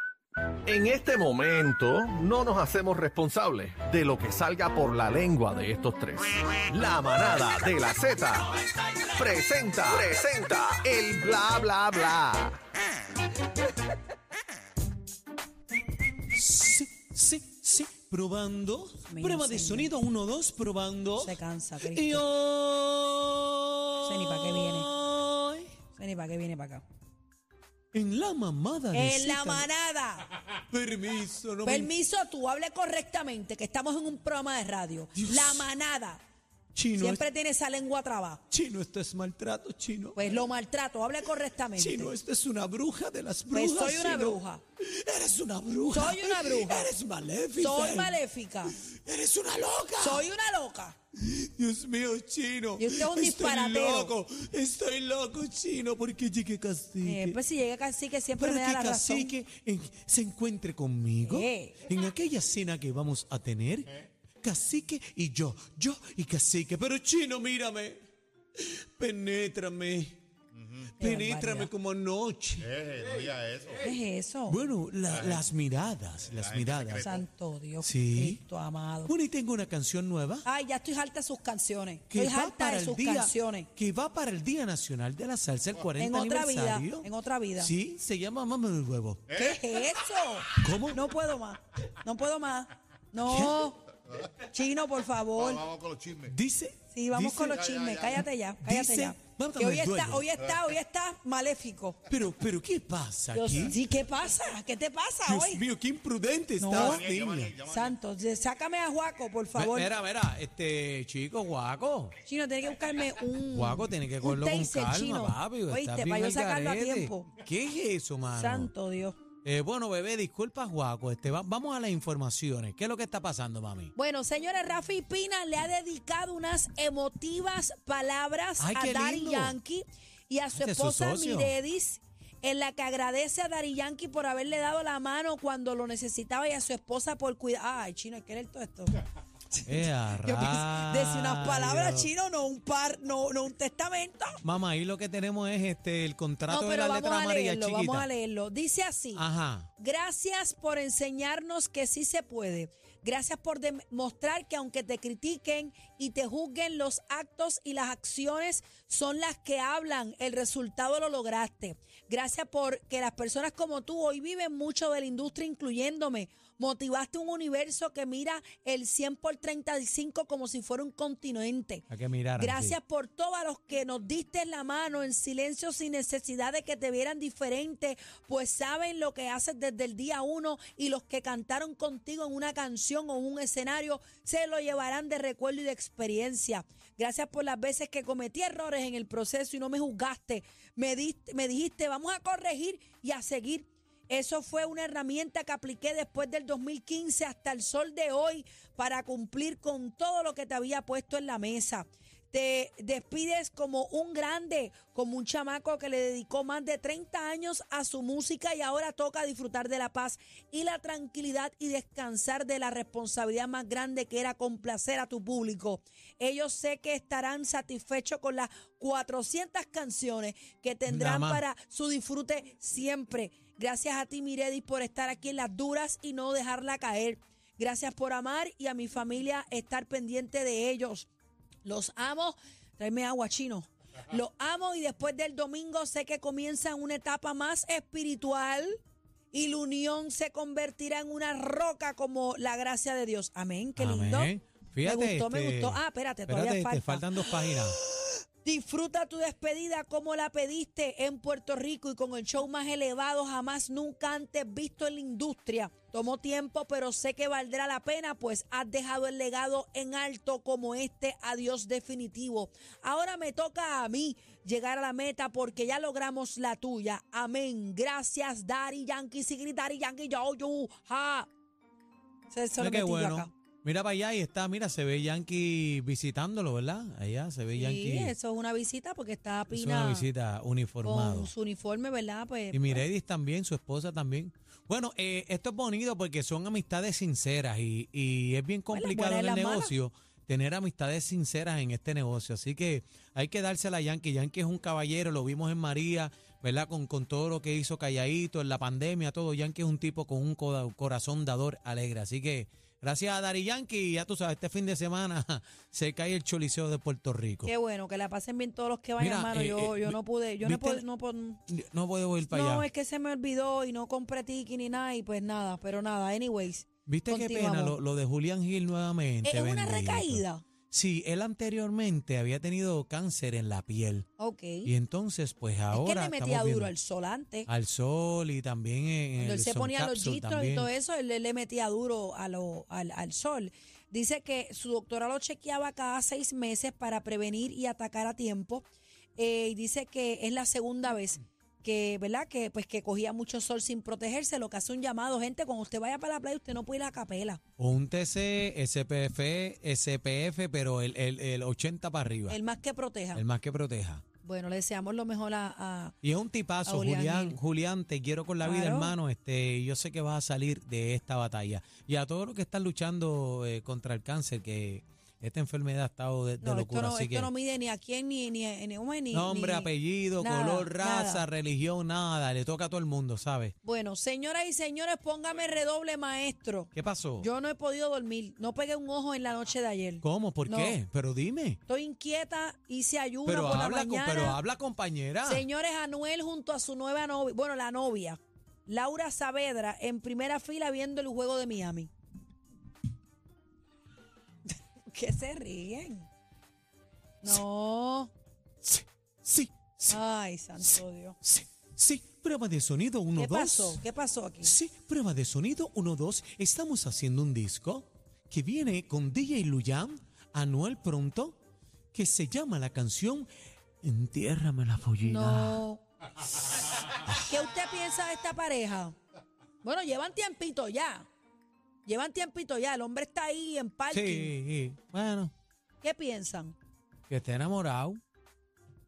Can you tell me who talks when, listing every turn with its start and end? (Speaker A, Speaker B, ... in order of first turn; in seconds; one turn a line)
Speaker A: 0.7-8.5
Speaker A: 9.1-12.6
Speaker B: 16.3-25.7
Speaker C: 19.1-19.9
Speaker C: 21.2-22.2
Speaker C: 24.0-24.9
Speaker C: 25.9-26.8
Speaker B: 27.9-29.7
Speaker C: 28.9-30.3
Speaker B: 30.5-31.9
Speaker C: 31.6-36.2
Speaker B: 35.1-35.7
Speaker B: 36.7-37.2
Speaker C: 36.9-38.4
Speaker B: 38.5-40.2
Speaker C: 40.1-42.1
Speaker B: 41.7-50.2
Speaker C: 43.5-44.6
Speaker C: 45.9-46.9
Speaker C: 47.5-48.8
Speaker C: 50.0-51.0
Speaker B: 51.1-57.4
Speaker C: 52.8-54.1
Speaker C: 57.0-59.4
Speaker B: 58.4-68.0
Speaker C: 61.2-61.8
Speaker B: 68.6-70.2
Speaker B: 71.0-72.7
Speaker C: 71.0-71.7
Speaker D: 72.7-73.8
Speaker C: 73.8-74.6
Speaker B: 74.5-77.2
Speaker D: 76.6-76.9
Speaker C: 77.0-79.1
Speaker B: 77.8-78.4
Speaker B: 79.0-80.5
Speaker C: 80.4-83.7
Speaker B: 82.1-89.2
Speaker C: 86.0-87.7
Speaker C: 89.3-93.8
Speaker B: 90.6-91.0
Speaker B: 93.2-93.7
Speaker C: 94.4-95.7
Speaker D: 95.5-96.3
Speaker B: 96.2-100.3
Speaker C: 96.9-102.0
Speaker B: 102.1-103.8
Speaker C: 103.3-105.6
Speaker B: 105.2-107.6
Speaker C: 106.6-107.0
Speaker D: 106.8-107.9
Speaker C: 107.6-109.9
Speaker B: 109.5-112.2
Speaker C: 112.2-117.3
Speaker B: 113.5-118.7
Speaker C: 118.3-119.2
Speaker B: 119.4-123.9
Speaker C: 123.9-139.0
Speaker B: 128.6-129.6
Speaker B: 130.5-131.6
Speaker C: 139.5-144.4
Speaker B: 139.7-142.1
Speaker B: 144.4-148.1
Speaker C: 146.5-149.2
Speaker B: 149.1-149.7
Speaker C: 149.8-171.8
Speaker B: 171.9-172.8
Speaker C: 172.4-231.1
Speaker B: 220.9-221.4
Speaker C: 231.6-238.8
Speaker C: 239.3-244.3
Speaker B: 243.8-247.8
Speaker C: 244.8-271.3
Speaker C: 272.3-273.3
Speaker B: 272.6-278.1
Speaker C: 277.5-280.1
Speaker B: 279.5-281.3
Speaker C: 280.8-282.9
Speaker B: 282.5-307.5
Speaker C: 288.7-289.7
Speaker C: 307.4-311.4
Speaker B: 309.0-310.8
Speaker B: 311.5-312.7
Speaker C: 312.3-317.8
Speaker B: 316.9-324.1
Speaker C: 319.2-320.4
Speaker C: 324.2-324.7
Speaker B: 324.6-326.7
Speaker C: 325.7-327.5
Speaker B: 327.5-330.7
Speaker C: 329.2-347.4
Speaker B: 347.6-352.4
Speaker C: 352.3-353.2
Speaker B: 353.1-354.0
Speaker C: 354.2-355.9
Speaker B: 356.0-367.3
Speaker C: 356.6-357.4
Speaker C: 358.4-358.9
Speaker C: 366.4-371.2
Speaker B: 369.1-373.5
Speaker C: 373.6-380.8
Speaker B: 376.7-377.3
Speaker B: 380.0-381.6
Speaker C: 381.6-384.4
Speaker B: 383.2-385.5
Speaker C: 385.2-391.9
Speaker C: 394.9-396.1
Speaker C: 397.2-398.1
Speaker B: 398.6-400.0
Speaker C: 399.9-401.2
Speaker B: 400.6-403.8
Speaker C: 403.1-404.5
Speaker B: 404.4-411.4
Speaker B: 411.9-413.3
Speaker B: 413.8-415.6
Speaker C: 415.0-415.8
Speaker C: 417.2-418.9
Speaker C: 419.6-421.1
Speaker C: 421.9-424.3
Speaker B: 423.9-425.3
Speaker C: 425.8-426.6
Speaker B: 427.1-428.0